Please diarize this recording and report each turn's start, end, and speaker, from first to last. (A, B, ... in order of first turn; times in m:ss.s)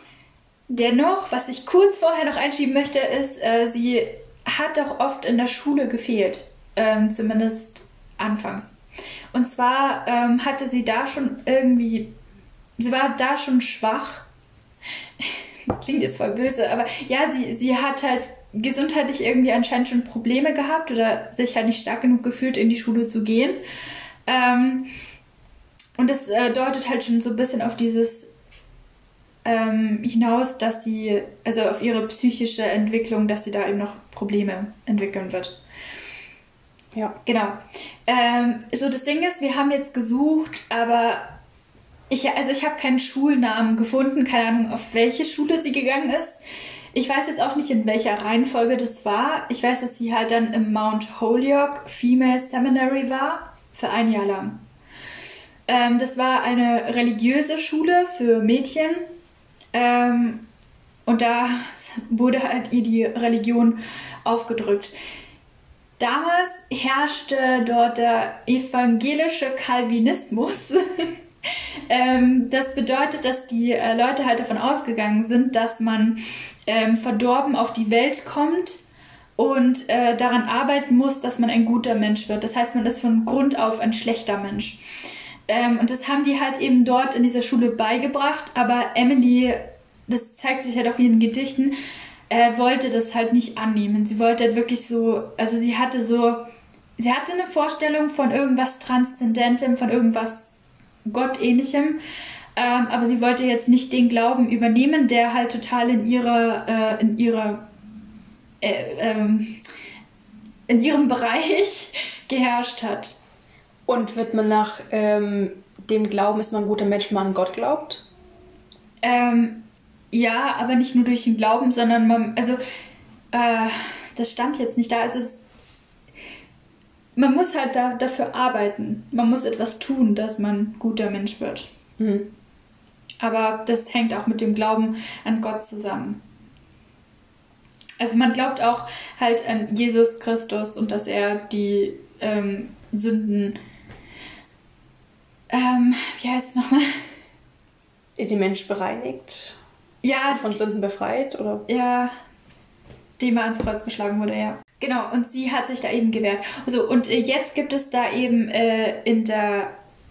0:00.7-0:08.8 A
0:09.3-0:12.1 A
0:12.8-0:14.3 A
0:15.2-0:23.6 A
0:24.3-0:24.9 A
0:26.0-0:28.3 A
0:29.4-0:35.6 A
0:37.2-0:41.4 A
0:42.1-0:46.4 A
0:46.9-0:54.6 A
0:55.7-0:59.1 A
0:59.7-1:00.5 A
1:01.0-1:04.9 A
1:06.0-1:18.8 A
1:19.4-1:24.8 A
1:25.5-1:31.7 A
1:32.3-1:40.5 A
1:41.1-1:42.0 A
1:42.6-1:47.7 A
1:48.6-1:49.6 A
1:50.7-1:53.2 A
1:53.9-1:58.0 B
1:59.0-2:02.6 A
2:03.3-2:05.4 A
2:07.2-2:11.7 A
2:12.0-2:12.3 B
2:13.2-2:16.2 A
2:18.0-2:23.6 A
2:25.5-2:27.0 A
2:28.2-2:29.6 B
2:30.0-2:30.6 A
2:30.3-2:31.6 B
2:31.7-2:32.1 A
2:33.2-2:39.7 A